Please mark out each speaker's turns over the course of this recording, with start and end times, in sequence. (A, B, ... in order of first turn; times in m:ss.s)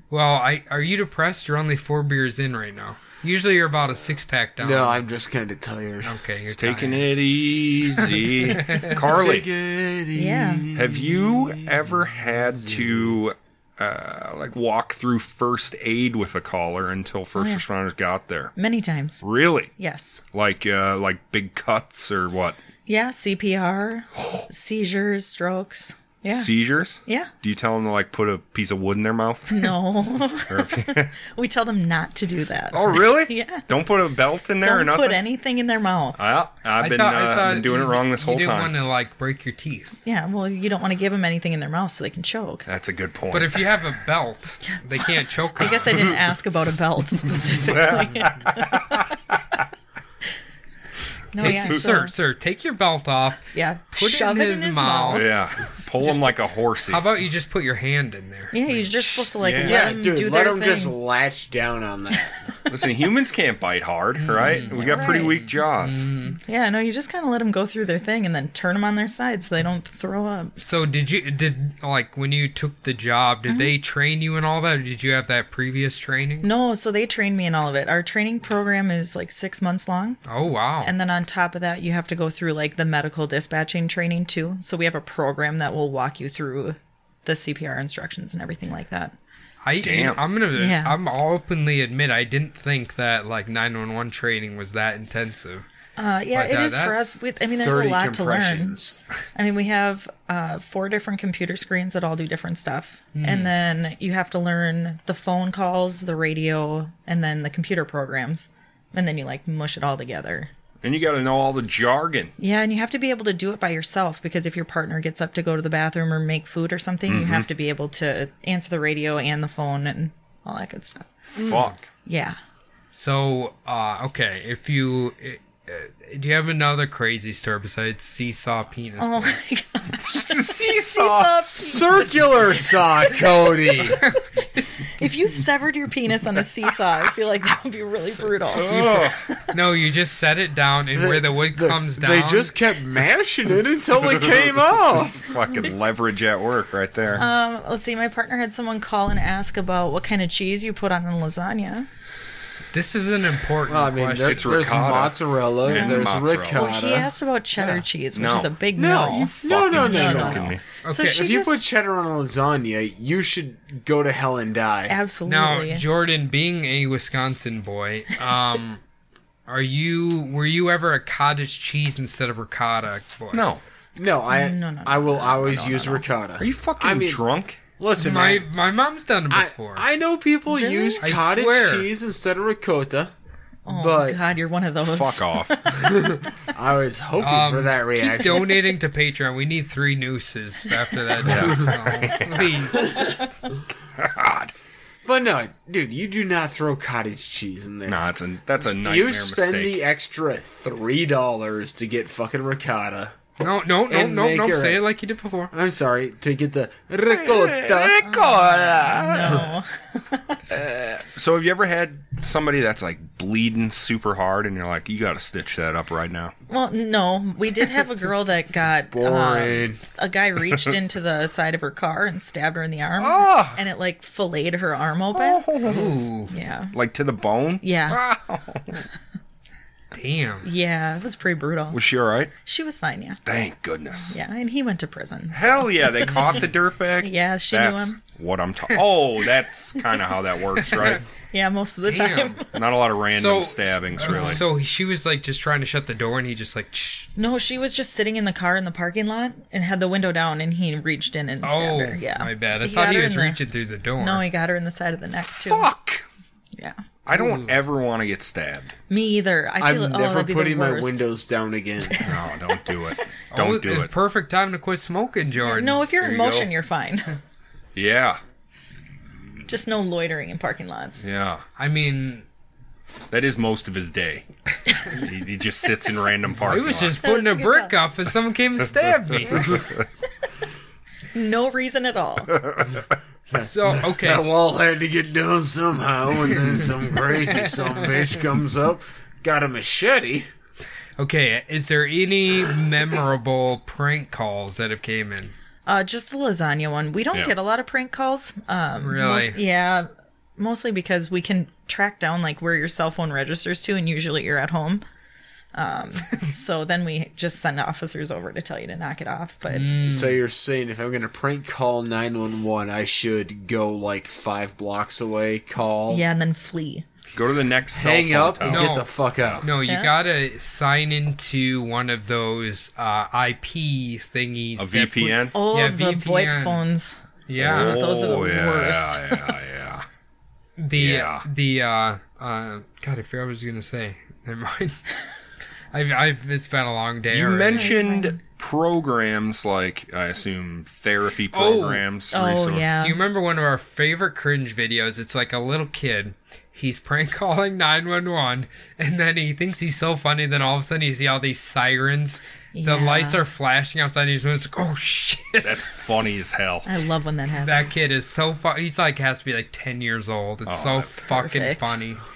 0:00.1-0:05.0 A
0:04.6-0:06.2 B
0:06.0-0:07.1 A
0:06.5-0:09.5 C
0:08.0-0:09.0 A
0:08.9-0:13.2 B
0:10.2-0:10.7 D
0:10.7-0:18.5 C
0:17.4-0:17.6 D
0:18.6-0:19.2 D
0:19.2-0:19.7 C
0:19.8-0:20.2 D
0:20.3-0:22.6 C
0:22.9-0:26.5 D
0:24.2-0:24.5 C
0:26.3-0:29.8 C
0:27.0-0:27.3 D
0:29.5-0:33.6 D
0:30.5-0:31.1 C
0:32.7-0:35.2 C
0:34.6-0:36.2 D
0:36.2-0:38.7 C
0:36.8-0:40.0 A
0:40.0-0:42.7 D
0:42.7-0:43.8 C
0:43.3-0:46.0 A
0:45.6-0:49.1 D
0:47.5-0:49.0 C
0:51.3-0:52.1 D
0:51.4-0:55.3 A
0:51.4-0:51.8 C
0:53.5-0:55.3 D
0:55.1-0:57.0 C
0:56.0-0:59.3 A
0:58.5-1:00.9 D
0:59.4-0:59.9 C
0:59.6-1:02.4 B
1:02.7-1:06.1 C
1:04.2-1:06.4 A
1:04.5-1:05.4 D
1:06.4-1:10.6 D
1:10.6-1:16.5 A
1:13.5-1:13.7 D
1:16.4-1:20.2 D
1:20.3-1:20.9 A
1:20.8-1:29.2 D
1:29.6-1:35.6 A
1:29.8-1:30.2 C
1:30.6-1:31.0 D
1:36.0-1:38.8 D
1:36.3-1:37.2 A
1:37.6-1:39.0 B
1:39.4-1:50.5 D
1:43.2-1:43.5 A
1:50.8-1:52.3 C
1:52.4-2:02.4 D
1:57.1-1:57.5 C
2:01.3-2:01.8 C
2:02.9-2:09.4 A
2:09.0-2:14.0 D
2:10.1-2:11.9 C
2:11.6-2:14.0 B
2:14.8-2:19.5 D
2:18.5-2:19.2 C
2:19.5-2:22.5 A
2:21.0-2:25.3 B
2:25.0-2:27.3 C
2:27.2-2:31.9 D
2:32.7-2:34.7 A
2:33.7-2:37.1 B
2:34.2-2:36.7 C
2:35.7-2:41.5 D
2:37.6-2:38.6 C
2:38.8-2:45.0 B
2:39.4-2:40.6 C
2:40.8-2:41.2 A
2:44.9-2:45.8 D
2:45.3-2:48.8 A
2:49.5-2:53.4 A
2:53.3-2:53.6 C
2:54.0-2:57.2 B
2:54.3-2:56.0 D
2:55.5-2:57.6 C
2:57.8-2:58.5 B
2:58.0-2:59.9 A
2:59.3-3:03.1 B
3:00.5-3:01.0 D
3:01.0-3:01.9 A
3:03.7-3:06.1 D
3:03.7-3:04.2 B
3:04.8-3:05.7 C
3:05.7-3:08.6 B
3:07.2-3:13.1 A
3:08.2-3:08.6 D
3:11.2-3:12.9 C
3:14.0-3:14.5 C
3:15.0-3:18.0 B
3:17.9-3:19.8 C
3:18.8-3:23.2 B
3:23.4-3:25.5 A
3:23.9-3:24.8 B
3:25.5-3:28.1 B
3:27.1-3:29.5 C
3:28.0-3:30.4 D
3:30.5-3:36.3 C
3:36.5-3:46.7 D
3:38.9-3:39.8 B
3:43.0-3:43.6 C
3:45.1-3:46.0 C
3:45.6-3:46.3 A
3:46.7-3:48.8 C
3:47.6-3:48.0 D
3:49.9-3:50.5 A
3:50.4-3:51.8 D
3:51.7-3:52.3 C
3:52.4-3:53.2 D
3:53.2-3:54.2 C
3:54.0-3:56.5 D
3:55.3-4:01.0 C
3:57.0-3:58.0 D
4:00.6-4:01.0 A
4:01.3-4:02.6 D
4:01.8-4:02.4 A
4:02.5-4:04.4 C
4:03.1-4:07.1 A
4:04.0-4:04.4 D
4:07.2-4:13.4 D
4:11.4-4:14.2 A
4:14.0-4:15.7 D
4:15.3-4:16.0 C
4:17.1-4:18.7 C
4:17.1-4:17.6 A
4:18.9-4:21.0 D
4:19.6-4:22.1 B
4:22.0-4:23.9 C
4:23.3-4:25.8 A
4:25.4-4:27.2 D
4:26.0-4:26.5 C
4:27.8-4:28.2 C
4:29.5-4:31.0 D
4:31.0-4:31.4 C
4:31.6-4:32.2 A
4:33.1-4:34.3 C
4:34.9-4:37.0 C
4:36.4-4:39.7 A
4:37.0-4:37.7 D
4:41.1-4:42.4 D
4:42.5-4:42.8 C
4:43.3-4:50.3 B
4:43.3-4:44.4 A
4:47.1-4:48.2 A
4:51.0-4:55.3 A
4:55.7-5:04.8 D
4:58.8-4:59.4 A
5:05.5-5:09.8 D
5:09.5-5:10.2 A
5:09.8-5:16.0 B
5:15.9-5:16.8 D
5:17.1-5:19.4 C
5:17.7-5:19.5 B
5:18.4-5:18.9 A
5:19.4-5:26.6 A
5:19.7-5:19.9 D
5:24.6-5:25.4 C
5:25.3-5:29.3 D
5:27.3-5:27.8 A
5:27.4-5:29.9 C
5:30.6-5:34.8 A
5:30.8-5:31.2 C
5:35.7-5:37.7 A
5:37.1-5:42.7 C
5:37.5-5:38.2 D
5:41.3-5:41.8 A
5:42.1-5:43.0 D
5:42.8-5:55.8 A
5:52.5-5:53.2 D
5:55.4-5:56.7 C
5:56.6-5:57.7 D
5:57.4-6:02.0 A
6:00.5-6:00.9 C
6:01.0-6:01.8 D